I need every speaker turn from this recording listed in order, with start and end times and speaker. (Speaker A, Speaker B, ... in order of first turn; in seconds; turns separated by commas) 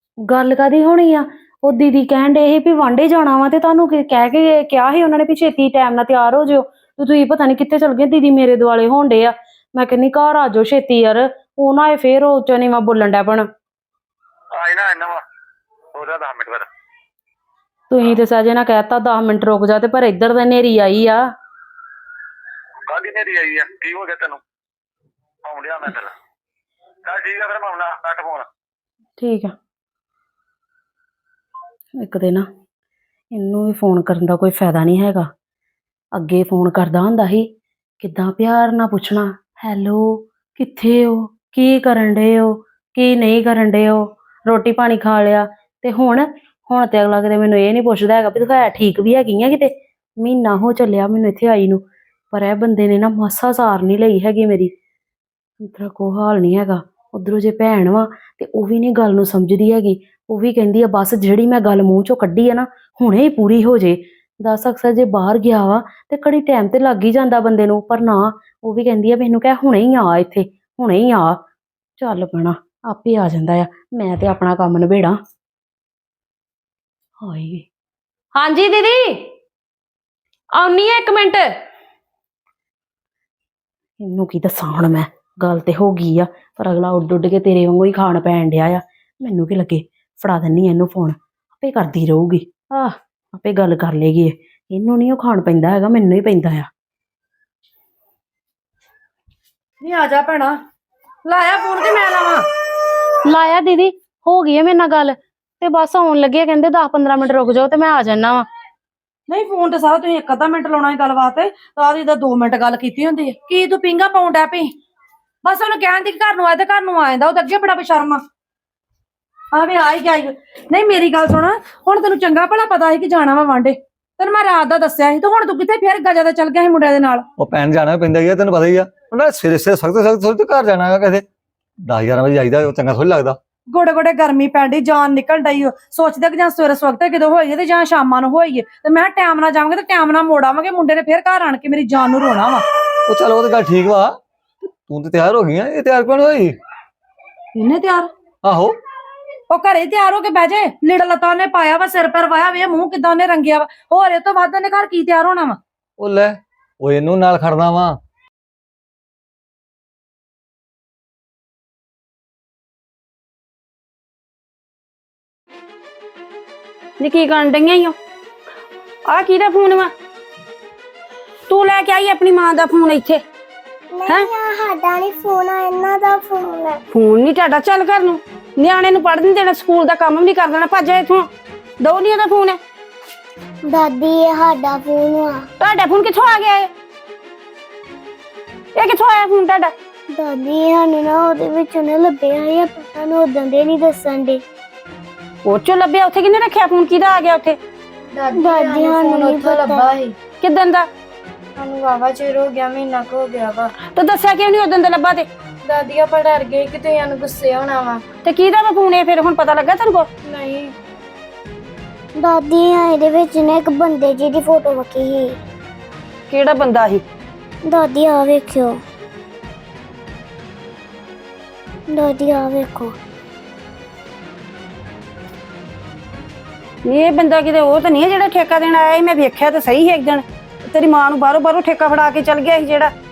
Speaker A: 0.3-13.5, Speaker B: 14.5-15.2, Speaker B: 15.9-16.7, Speaker A: 17.9-21.2, Speaker B: 22.9-24.4, Speaker B: 25.4-26.1, Speaker B: 27.1-28.5, Speaker A: 29.2-29.6, Speaker A: 32.0-32.5, Speaker A: 33.3-35.3, Speaker A: 36.1-37.5, Speaker A: 38.0-54.7, Speaker A: 55.6-71.4, Speaker A: 72.0-75.2, Speaker A: 77.2-77.7, Speaker A: 78.3-79.3, Speaker A: 80.5-81.5, Speaker A: 84.0-96.7, Speaker C: 99.8-100.5, Speaker C: 101.3-102.4, Speaker A: 103.2-108.5, Speaker C: 109.3-114.7, Speaker C: 115.5-118.2, Speaker C: 119.6-127.2, Speaker D: 127.4-131.2, Speaker D: 131.9-133.4, Speaker C: 133.8-142.6, Speaker D: 143.1-144.1, Speaker D: 144.9-146.6, Speaker C: 147.6-148.0, Speaker D: 148.4-148.8, Speaker C: 149.5-155.5, Speaker D: 156.0-158.0, Speaker E: 167.0-167.9, Speaker E: 169.1-169.9, Speaker E: 171.5-173.2, Speaker F: 174.0-176.8, Speaker E: 176.9-181.3, Speaker E: 181.8-182.6, Speaker F: 183.7-185.4, Speaker E: 185.6-186.7, Speaker E: 188.8-189.7, Speaker F: 190.1-194.4, Speaker E: 195.4-197.6, Speaker G: 198.1-200.1, Speaker F: 198.3-199.9, Speaker E: 200.4-200.9, Speaker G: 201.6-203.7, Speaker E: 203.9-205.3, Speaker G: 205.7-208.0, Speaker E: 208.2-210.1, Speaker G: 210.3-210.7, Speaker F: 212.2-215.3, Speaker E: 216.3-217.0, Speaker F: 217.7-218.8, Speaker F: 221.9-222.9, Speaker E: 226.8-232.9